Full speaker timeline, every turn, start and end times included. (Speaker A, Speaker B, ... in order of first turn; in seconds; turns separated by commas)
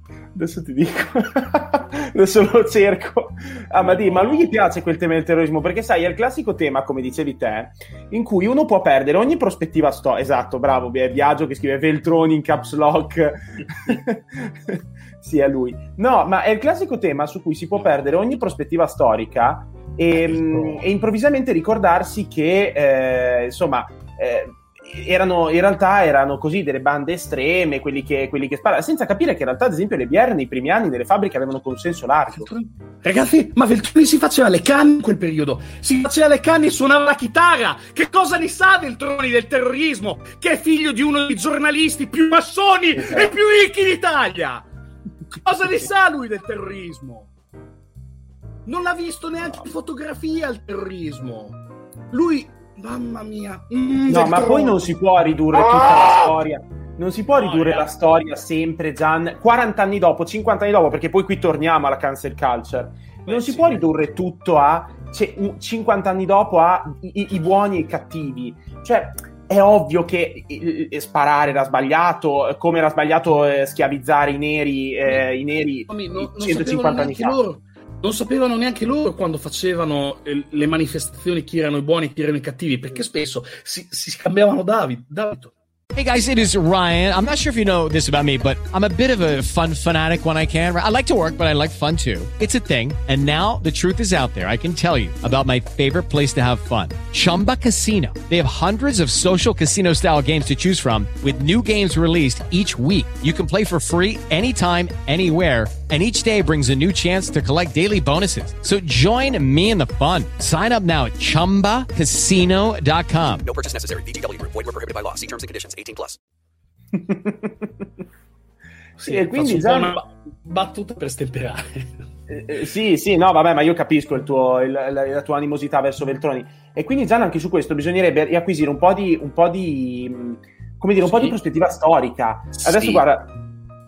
Speaker A: 0.3-32.5, Speaker B: 3.8-4.5, Speaker B: 20.2-20.8, Speaker B: 32.3-44.6, Speaker A: 43.0-43.3, Speaker B: 45.3-47.3, Speaker B: 48.6-51.6, Speaker B: 52.1-54.8, Speaker A: 54.1-77.4, Speaker B: 55.5-56.2, Speaker B: 57.3-57.9, Speaker B: 63.2-63.8, Speaker B: 75.9-85.5, Speaker C: 85.9-113.5, Speaker D: 113.4-116.2, Speaker A: 116.9-117.7, Speaker B: 119.0-121.9, Speaker A: 119.0-120.0, Speaker A: 122.3-133.3, Speaker B: 131.0-131.4, Speaker B: 132.6-133.0